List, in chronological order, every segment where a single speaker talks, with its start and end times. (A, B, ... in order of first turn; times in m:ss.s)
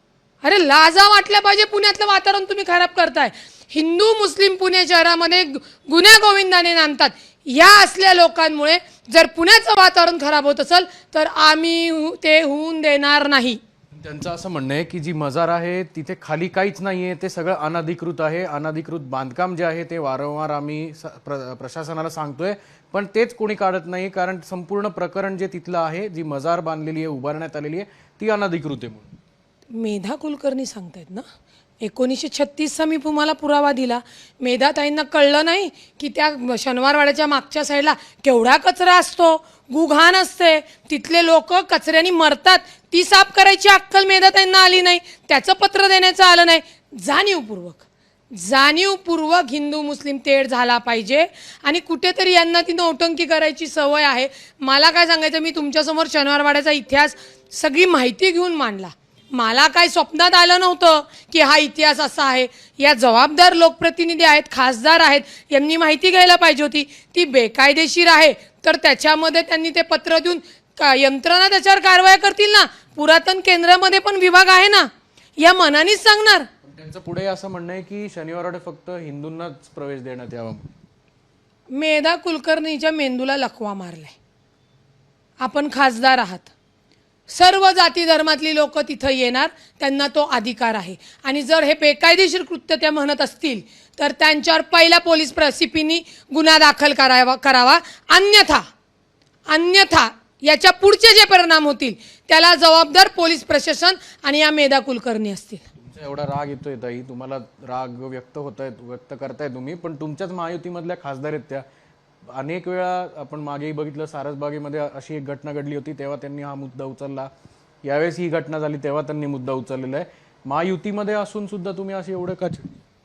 0:00.4-0:13.6 A
0:14.0-0:29.2 B
0:29.7-0:31.3 A
0:31.8-1:16.5 A
1:16.6-1:20.7 B
1:21.7-1:24.2 A
1:25.4-1:26.5 A
1:27.3-1:38.7 A
1:39.5-1:45.6 A
1:45.8-1:51.6 B
1:52.3-1:57.3 B
1:57.8-2:02.8 B